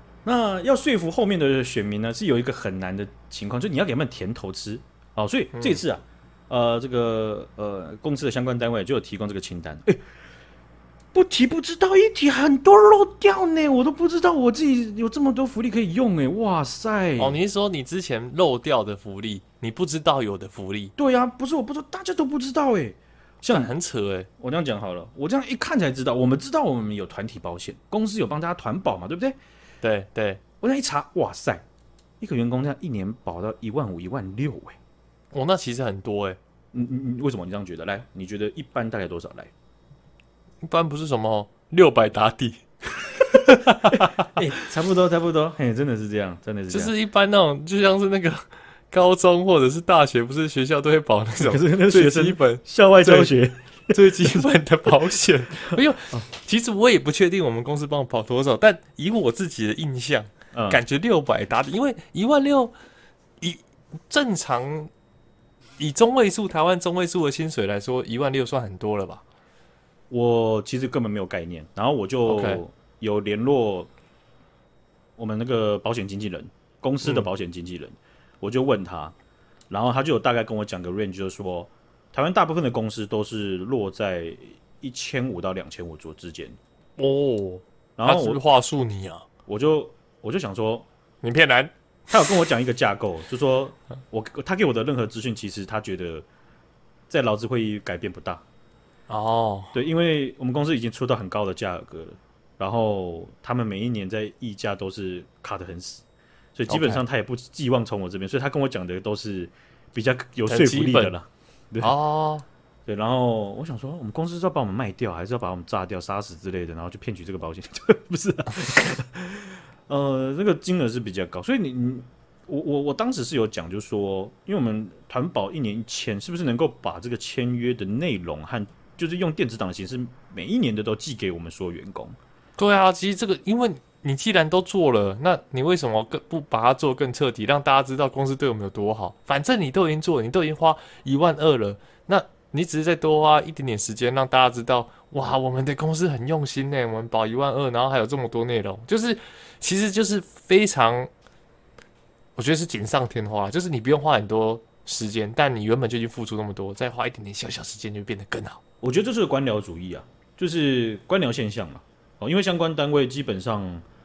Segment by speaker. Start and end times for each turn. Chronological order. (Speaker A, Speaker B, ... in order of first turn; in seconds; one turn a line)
Speaker A: 0.2-10.0
Speaker B: 5.5-5.8
Speaker A: 11.1-17.4
Speaker B: 17.2-20.9
Speaker A: 21.0-23.7
Speaker B: 23.5-24.3
Speaker A: 24.4-29.4
Speaker B: 29.8-30.4
Speaker A: 30.6-31.6
Speaker A: 32.2-34.8
Speaker B: 35.3-36.4
Speaker A: 36.7-39.5
Speaker B: 40.6-44.2
Speaker A: 43.7-46.9
Speaker B: 46.7-53.4
Speaker A: 51.4-54.5
Speaker B: 53.9-62.7
Speaker A: 55.6-56.2
Speaker A: 60.5-60.8
Speaker B: 63.4-64.9
Speaker B: 65.8-69.2
Speaker A: 70.1-73.9
Speaker B: 72.3-72.6
Speaker A: 75.2-79.2
Speaker A: 79.7-86.6
Speaker B: 87.0-89.3
Speaker A: 88.0-88.4
Speaker A: 89.5-90.9
Speaker B: 91.2-91.7
Speaker A: 92.1-96.2
Speaker A: 97.1-98.4
Speaker B: 99.1-99.8
Speaker A: 99.7-106.0
Speaker A: 106.6-111.9
Speaker B: 106.7-107.0
Speaker B: 110.5-111.1
Speaker B: 111.8-112.5
Speaker A: 112.9-132.2
Speaker B: 132.6-151.1
Speaker B: 152.4-158.6
Speaker A: 158.8-163.8